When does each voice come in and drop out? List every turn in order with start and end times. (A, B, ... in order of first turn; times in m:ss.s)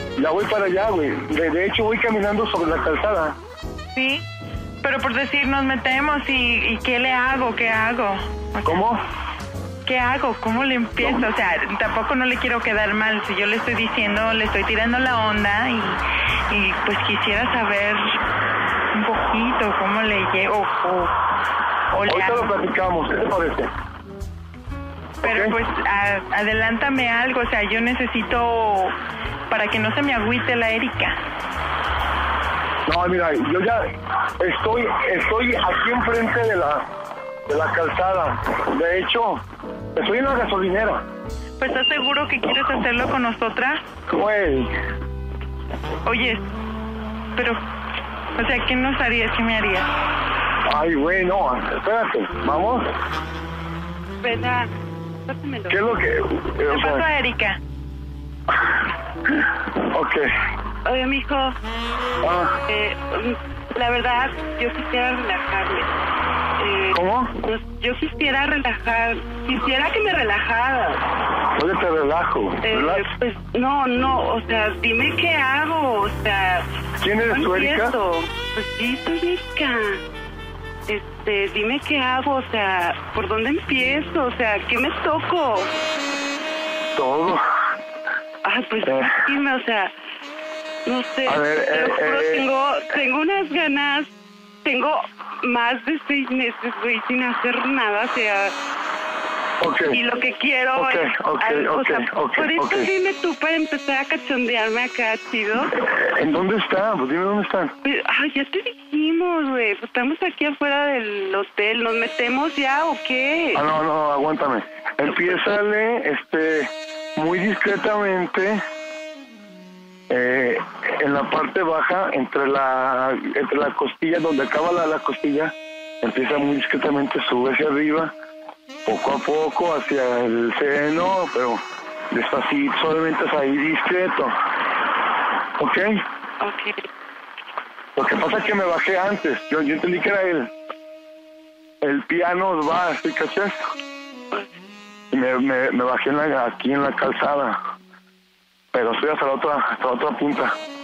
0:00.2-0:03.4 A
0:03.9-0:04.2 B
0:04.8-0:08.8 B
0:08.6-0:09.0 A
0:09.8-0:18.2 B
0:18.9-0:21.1 B
0:21.9-0:22.5 B
0:22.1-0:23.7 A
0:25.2-0:25.5 A
0:25.2-0:29.0 B
0:29.5-0:31.2 B
0:32.9-0:36.9 A
0:37.5-0:39.4 A
0:40.0-0:41.0 A
0:41.6-0:43.8 B
0:44.1-0:44.7 A
0:46.0-0:46.4 B
0:48.4-0:49.9 B
0:50.7-0:52.9 A
0:54.2-0:54.7 C
0:55.2-0:55.8 C
0:55.7-0:57.0 A
0:56.7-0:57.6 B
0:59.3-1:00.3 A
1:00.8-1:01.5 C
1:02.2-1:02.6 A
1:02.7-1:05.9 C
1:06.6-1:11.0 C
1:06.9-1:07.3 A
1:11.6-1:13.0 A
1:12.6-1:16.6 C
1:17.0-1:17.9 A
1:17.3-1:20.0 C
1:20.9-1:25.7 C
1:27.0-1:27.4 A
1:28.4-1:29.9 C
1:28.8-1:29.1 A
1:30.8-1:34.1 C
1:31.2-1:32.4 A
1:34.6-1:38.5 C
1:39.6-1:40.0 A
1:39.9-1:45.7 C
1:40.8-1:42.9 A
1:45.8-1:47.7 A
1:47.8-1:53.6 C
1:53.5-1:58.6 A
2:00.1-2:08.1 A
2:08.8-2:11.6 A
2:12.1-2:14.3 A
2:15.6-2:16.0 A
2:16.4-2:16.8 C
2:18.0-2:20.5 A
2:21.8-2:23.5 A
2:25.1-2:27.6 A
2:28.7-2:30.6 A